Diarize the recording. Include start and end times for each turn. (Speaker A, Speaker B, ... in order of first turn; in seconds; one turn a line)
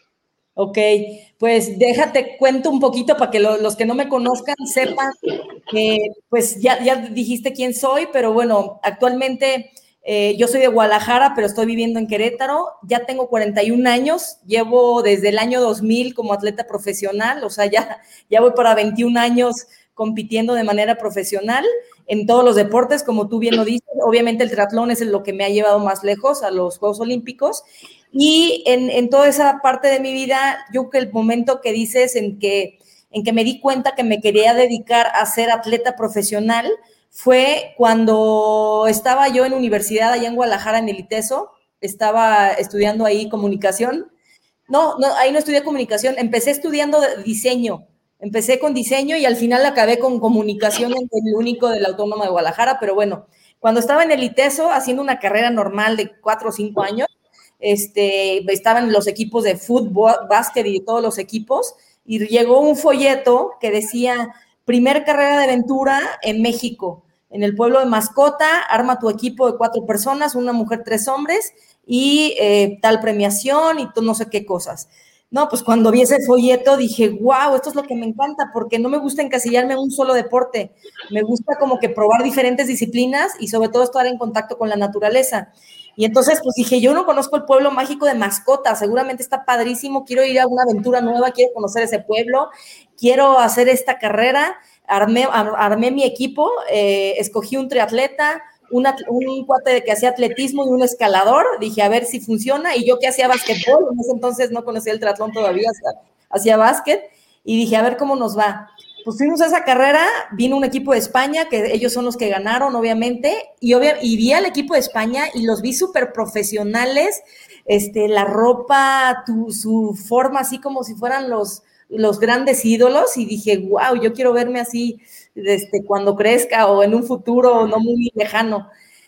Speaker A: 0.6-5.2
Speaker A: 5.7-44.1
Speaker A: 44.7-57.1
Speaker A: 57.6-128.7